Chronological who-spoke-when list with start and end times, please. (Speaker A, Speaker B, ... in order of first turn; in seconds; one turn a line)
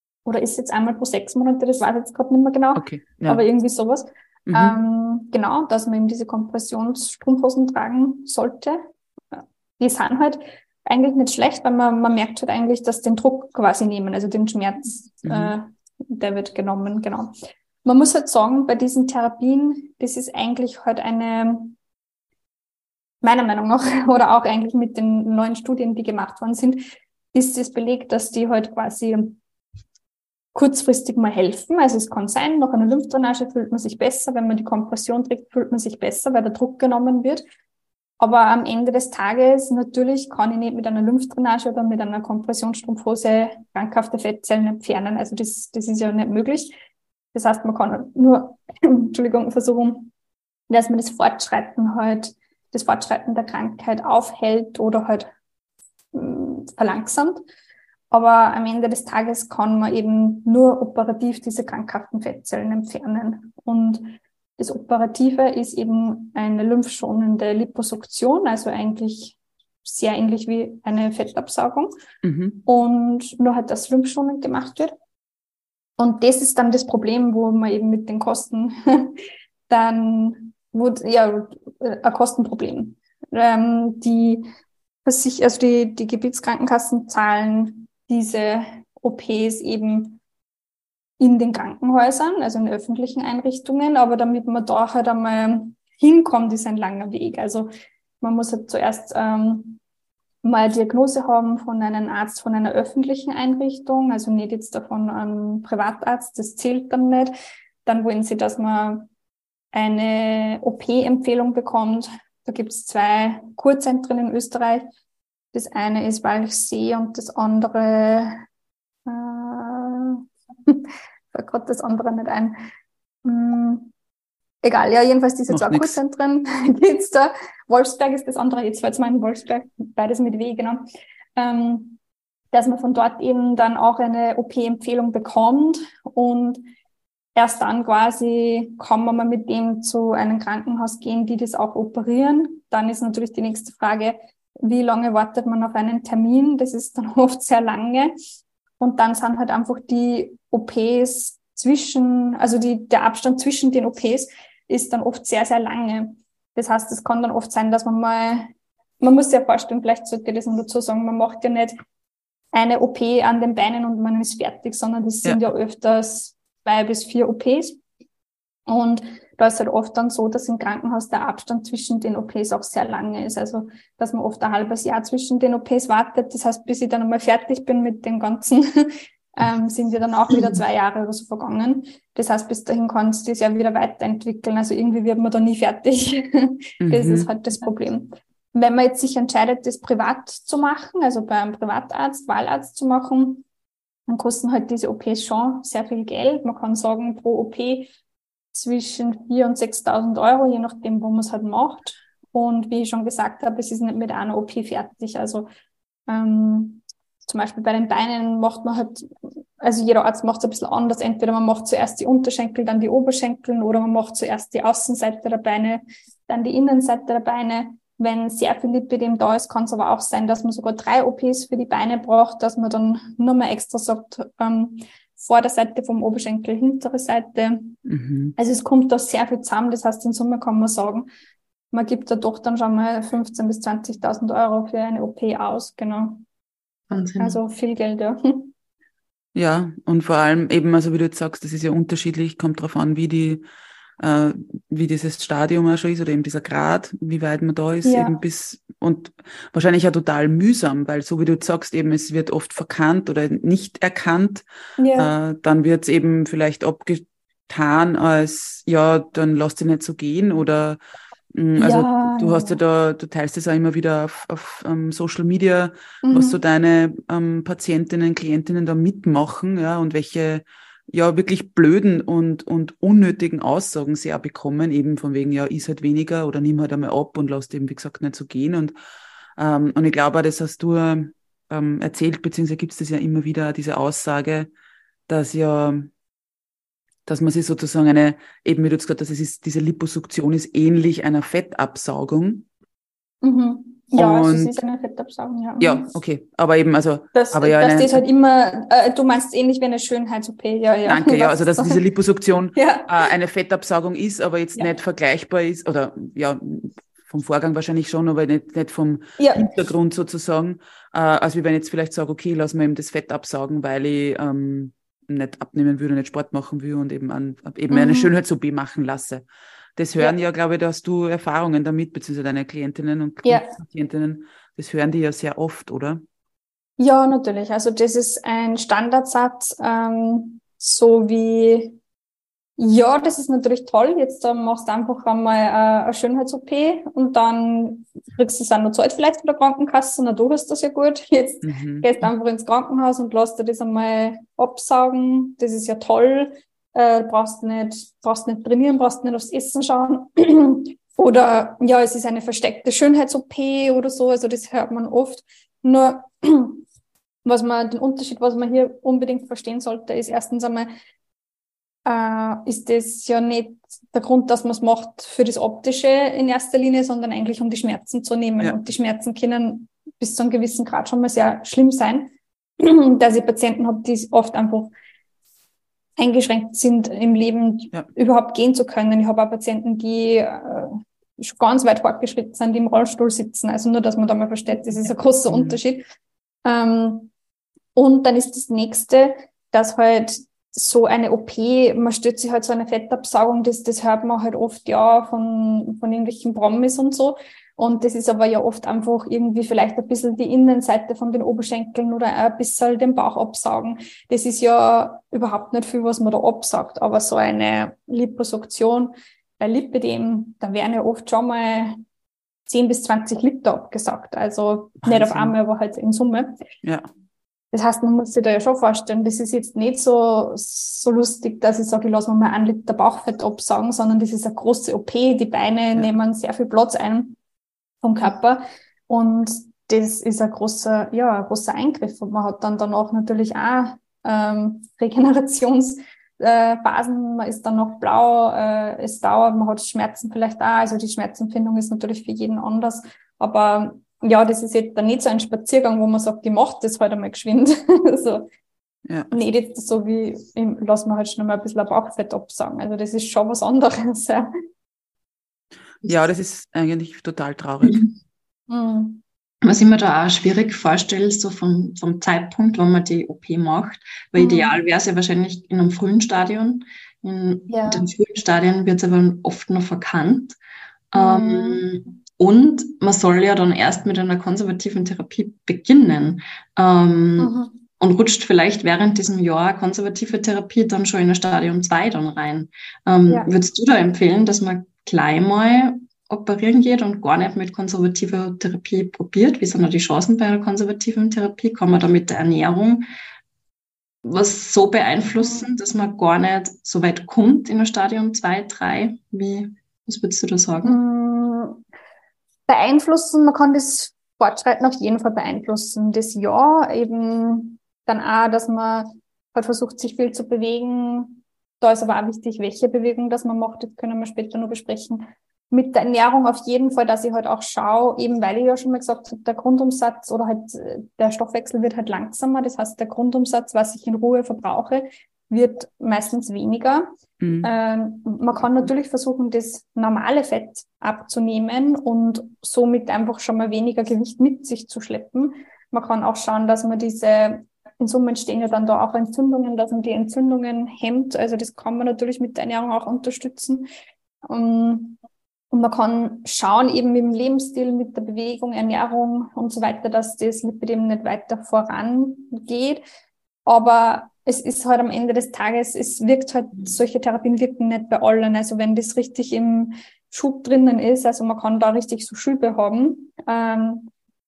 Speaker A: 0.2-17.3
Speaker B: 2.8-3.4
Speaker B: 4.5-4.8
Speaker B: 15.2-15.5
Speaker A: 17.9-21.8
Speaker A: 23.2-29.4
Speaker A: 30.5-37.4
Speaker A: 38.2-46.7
Speaker A: 47.3-50.1
Speaker A: 50.7-55.3
Speaker A: 56.1-57.4
Speaker A: 58.1-71.9
Speaker B: 72.2-72.6
Speaker A: 72.7-74.9
Speaker A: 76.0-84.5
Speaker A: 85.0-90.2
Speaker A: 91.2-97.7
Speaker A: 98.2-99.8
Speaker A: 100.4-107.3
Speaker A: 107.8-109.1
Speaker A: 109.7-114.9
Speaker A: 115.5-118.4
Speaker A: 119.1-122.6
Speaker A: 123.2-123.9
Speaker A: 124.6-130.8
Speaker B: 125.5-126.0
Speaker A: 131.4-132.0
Speaker A: 132.5-136.7
Speaker A: 137.4-148.1
Speaker A: 148.8-161.8
Speaker A: 162.5-167.8
Speaker A: 168.7-193.4
Speaker B: 186.8-187.3
Speaker A: 194.1-197.9
Speaker A: 198.5-205.5
Speaker A: 206.1-209.1
Speaker A: 209.6-227.8
Speaker B: 227.8-228.3
Speaker A: 228.4-231.1
Speaker A: 231.7-236.2
Speaker C: 236.9-237.4
Speaker A: 237.2-238.5
Speaker B: 239.3-243.4
Speaker B: 244.0-254.4
Speaker A: 247.8-248.2
Speaker A: 254.8-255.1
Speaker B: 255.0-260.8
Speaker B: 261.3-278.7
Speaker A: 261.6-262.6
Speaker A: 266.0-266.4
Speaker B: 279.4-284.5
Speaker B: 285.1-285.9
Speaker B: 287.1-292.5
Speaker A: 293.2-295.9
Speaker B: 294.0-294.6
Speaker B: 295.6-298.0
Speaker A: 297.1-301.8
Speaker B: 300.9-326.0
Speaker A: 302.6-303.1
Speaker A: 309.2-309.6
Speaker A: 317.7-318.1
Speaker A: 323.2-323.6
Speaker A: 326.8-331.8
Speaker A: 332.6-356.6
Speaker B: 341.4-341.9
Speaker A: 357.2-360.7
Speaker A: 361.9-374.7
Speaker A: 376.0-385.8
Speaker B: 385.3-385.6
Speaker A: 386.4-387.1
Speaker A: 387.8-411.8
Speaker A: 412.5-416.4
Speaker B: 414.8-415.4
Speaker A: 417.5-427.2
Speaker A: 427.8-448.3
Speaker B: 448.9-449.1
Speaker A: 449.1-454.3
Speaker B: 455.8-457.9
Speaker C: 457.6-457.9
Speaker A: 458.5-459.0
Speaker C: 459.4-470.4
Speaker A: 464.2-464.6
Speaker A: 467.5-467.9
Speaker C: 470.9-492.9
Speaker A: 470.9-471.6
Speaker A: 477.2-477.6
Speaker C: 494.0-500.8
Speaker A: 495.2-495.5
Speaker A: 500.6-501.6
Speaker A: 502.5-526.9
Speaker B: 527.2-527.5
Speaker A: 527.4-543.7
Speaker A: 544.3-545.0
Speaker A: 545.5-552.8
Speaker A: 553.5-563.9